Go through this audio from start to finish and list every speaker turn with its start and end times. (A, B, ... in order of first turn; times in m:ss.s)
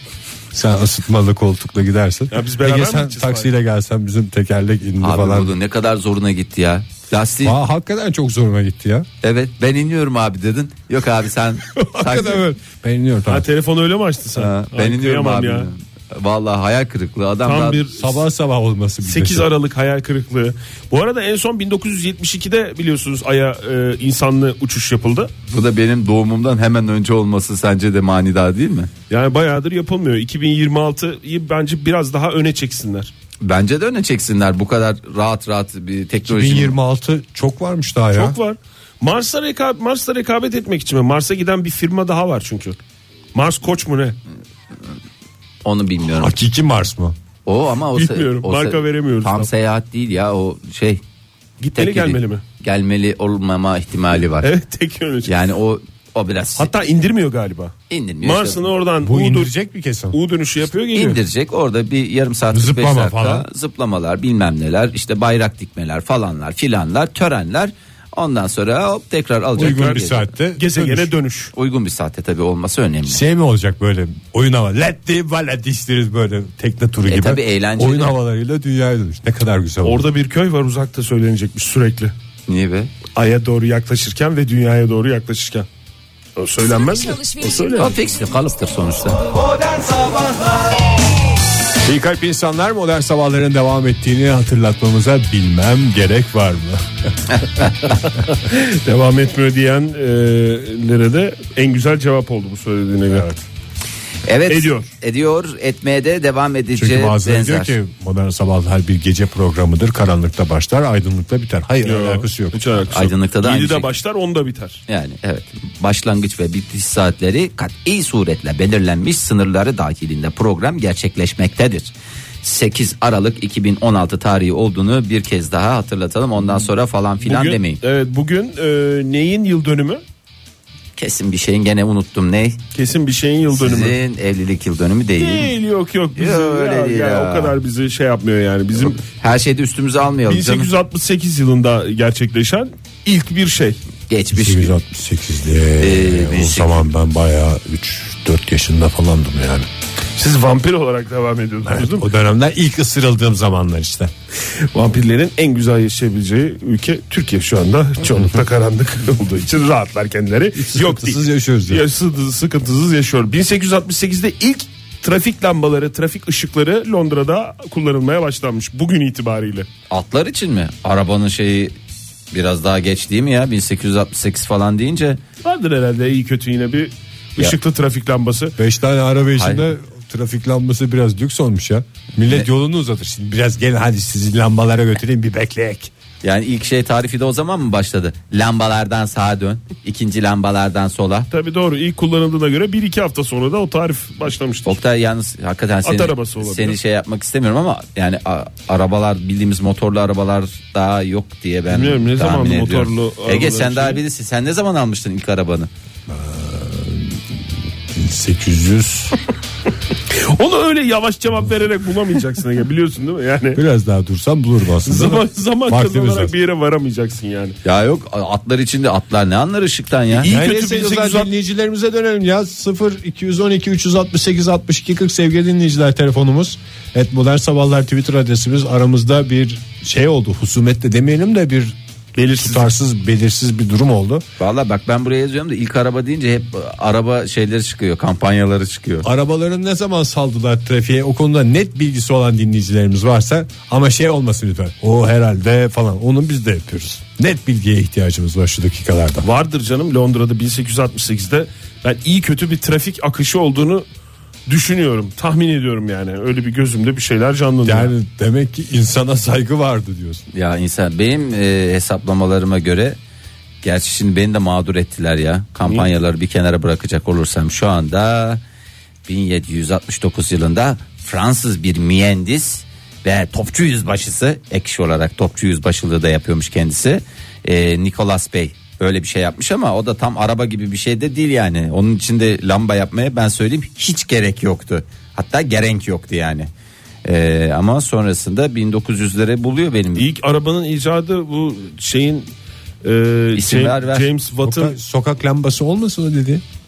0:00.5-0:05.5 A
0:02.3-0:03.5 B
0:05.0-0:07.6 C
0:07.4-0:09.1 A
0:09.2-0:12.4 C
0:11.8-0:13.5 A
0:13.3-0:15.7 B
0:14.4-0:17.8 C
0:17.4-0:18.2 B
0:17.9-0:19.5 A
0:19.0-0:25.3 B
0:25.5-0:28.9 C
0:29.1-0:33.1 B
0:33.4-0:36.8 C
0:36.3-0:38.4 A
0:38.1-0:42.8 B
0:43.3-0:44.2 B
0:45.6-0:46.3 C
0:46.2-0:47.1 A
0:47.4-0:51.0 C
0:47.9-0:49.5 B
0:51.6-0:52.4 B
0:51.7-0:54.5 C
0:54.4-0:55.3 B
0:55.2-0:56.7 C
0:56.6-0:59.5 B
0:57.9-0:58.7 C
0:59.0-1:00.2 A
1:00.1-1:01.2 B
1:00.9-1:10.3 C
1:02.5-1:03.4 A
1:09.6-1:11.1 A
1:09.6-1:11.5 B
1:11.5-1:13.2 C
1:13.1-1:20.0 A
1:17.0-1:18.1 C
1:19.8-1:22.1 B
1:22.5-1:22.9 C
1:23.1-1:25.7 B
1:26.4-1:27.9 B
1:27.8-1:29.3 C
1:31.8-1:36.8 A
1:38.3-1:43.3 B
1:43.1-1:43.4 A
1:44.2-1:47.7 C
1:44.5-1:44.9 B
1:46.7-1:52.8 A
1:51.8-1:54.8 B
1:52.9-1:53.9 C
1:54.9-2:07.8 C
2:07.2-2:10.0 B
2:11.0-2:12.6 C
2:12.7-2:14.0 B
2:13.5-2:15.5 C
2:15.2-2:19.0 B
2:16.2-2:17.5 C
2:19.0-2:20.7 C
2:20.2-2:23.8 B
2:24.1-2:24.7 C
2:24.3-2:29.7 A
2:25.8-2:26.8 C
2:30.2-2:32.1 B
2:31.7-2:34.1 A
2:34.6-2:49.7 B
2:40.6-2:41.8 A
2:49.9-2:51.7 C
2:52.3-2:55.2 C
2:55.4-2:58.6 B
2:58.6-3:05.9 A
2:59.3-2:59.7 C
3:06.2-3:11.3 C
3:11.3-3:14.8 B
3:14.6-3:25.7 C
3:15.8-3:16.8 B
3:21.7-3:24.0 B
3:26.1-3:29.1 A
3:30.1-3:33.6 B
3:33.5-3:36.3 A
3:34.8-3:37.6 B
3:37.6-3:40.3 C
3:40.1-3:41.3 B
3:40.3-3:51.8 A
3:52.2-3:52.7 B
3:52.3-3:54.2 A
3:54.4-3:59.1 C
3:59.0-4:09.3 A
4:09.2-4:13.8 B
4:14.5-4:17.9 B
4:17.6-4:20.2 A
4:20.3-4:23.0 C
4:23.6-4:28.4 C
4:29.0-4:46.5 C
4:47.0-4:50.1 C
4:49.9-4:52.3 B
4:52.8-4:54.7 B
4:53.3-4:54.1 C
4:54.4-4:56.4 A